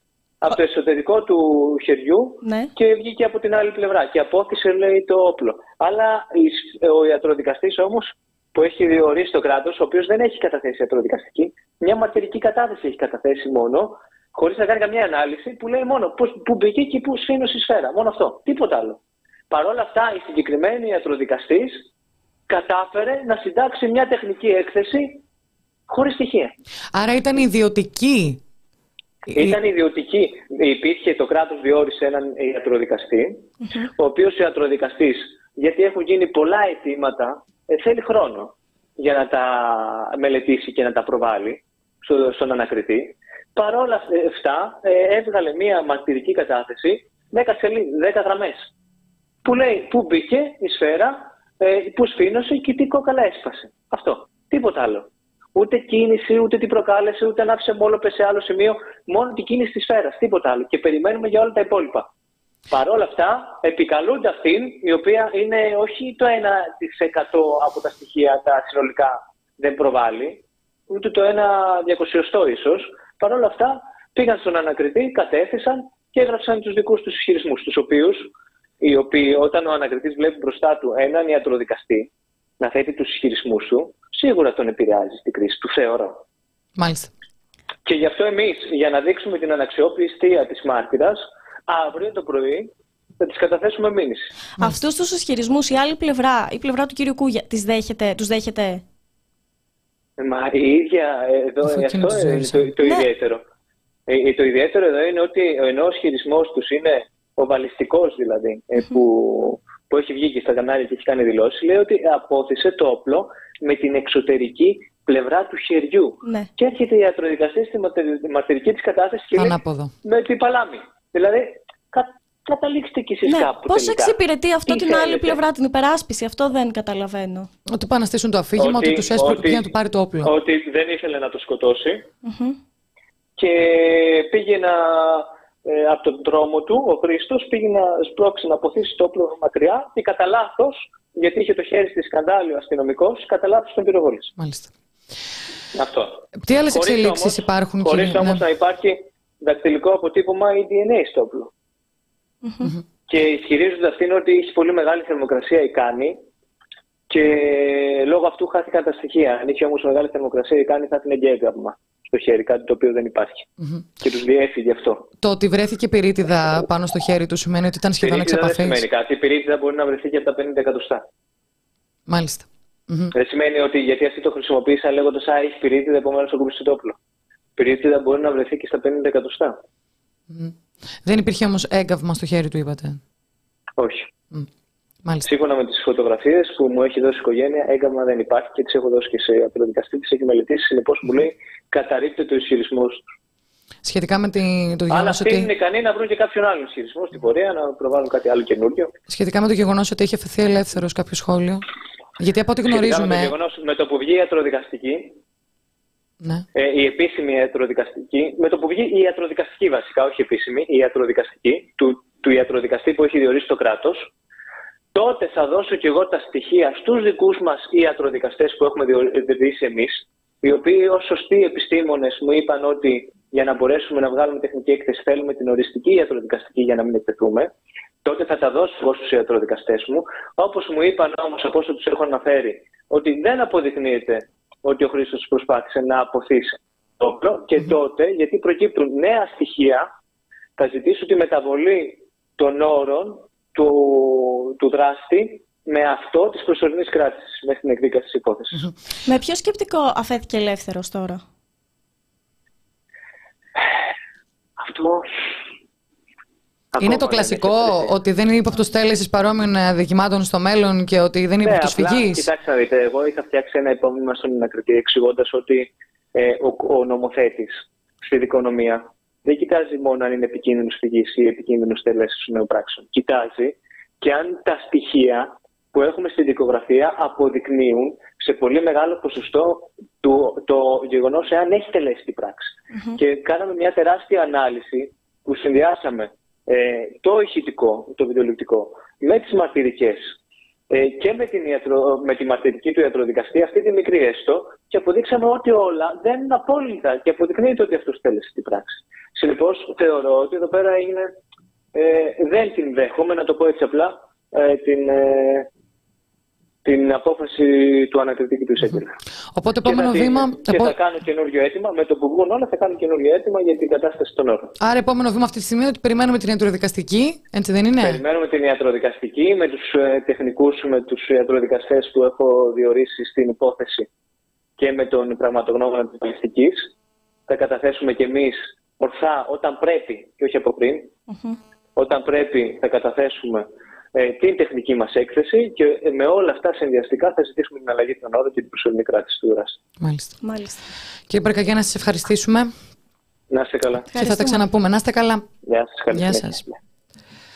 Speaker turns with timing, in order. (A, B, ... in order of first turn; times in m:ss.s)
0:00.4-0:21.9 A
0:02.4-0:02.7 B
0:22.5-0:25.2 A
0:25.9-0:26.5 A
0:26.9-0:28.4 C
0:29.3-0:29.6 C
0:29.3-0:48.7 A
0:49.4-1:02.1 A
1:02.7-1:22.1 A
1:22.6-1:26.2 A
1:26.8-1:27.1 C
1:27.8-1:34.3 A
1:34.6-1:38.8 B
1:40.2-1:43.4 A
1:41.6-1:42.7 C
1:42.8-1:43.1 B
1:44.1-2:05.4 A
1:56.2-1:56.5 B
1:59.3-1:59.9 C
2:03.2-2:07.5 B
2:07.7-2:10.3 C
2:08.6-2:09.7 A
2:10.2-2:12.0 A
2:12.2-2:12.6 B
2:13.4-2:24.3 A
2:24.4-2:24.7 C
2:25.7-2:31.5 A
2:26.4-2:28.4 C
2:32.4-2:32.7 B
2:33.1-2:36.2 A
2:37.1-2:43.5 A
2:44.0-2:45.1 A
2:45.2-2:48.8 C
2:48.0-2:51.0 A
2:52.1-2:53.1 C
2:53.1-2:57.0 A
2:57.6-2:59.6 A
3:00.3-3:00.5 C
3:01.0-3:03.0 C
3:03.8-3:04.1 A
3:05.0-3:05.3 C
3:05.2-3:13.0 A
3:13.8-3:15.5 C
3:14.9-3:18.9 A
3:19.1-3:21.6 C
3:22.2-3:23.3 C
3:22.7-3:25.2 A
3:26.2-3:26.4 C
3:26.5-3:34.1 A
3:34.9-3:47.5 A
3:48.0-3:59.8 A
4:00.6-4:08.6 A
4:09.0-4:11.2 B
4:14.6-4:15.1 A
4:16.7-4:17.9 A
4:16.8-4:22.3 C
4:21.4-4:50.1 A
4:42.7-4:43.0 B
4:50.7-5:01.1 A
5:01.7-5:05.5 A
5:06.6-5:08.9 A
5:09.3-5:10.8 C
5:09.6-5:14.5 A
5:14.6-5:18.0 C
5:17.8-5:23.9 A
5:24.6-5:26.7 A
5:27.3-5:30.9 A
5:31.1-5:31.4 B
5:31.8-5:39.6 A
5:39.8-5:40.1 C
5:40.2-5:40.6 B
5:41.1-5:42.5 C
5:43.3-5:43.9 A
5:43.9-5:45.2 C
5:43.9-5:44.4 B
5:45.4-5:46.6 A
5:45.9-5:46.4 C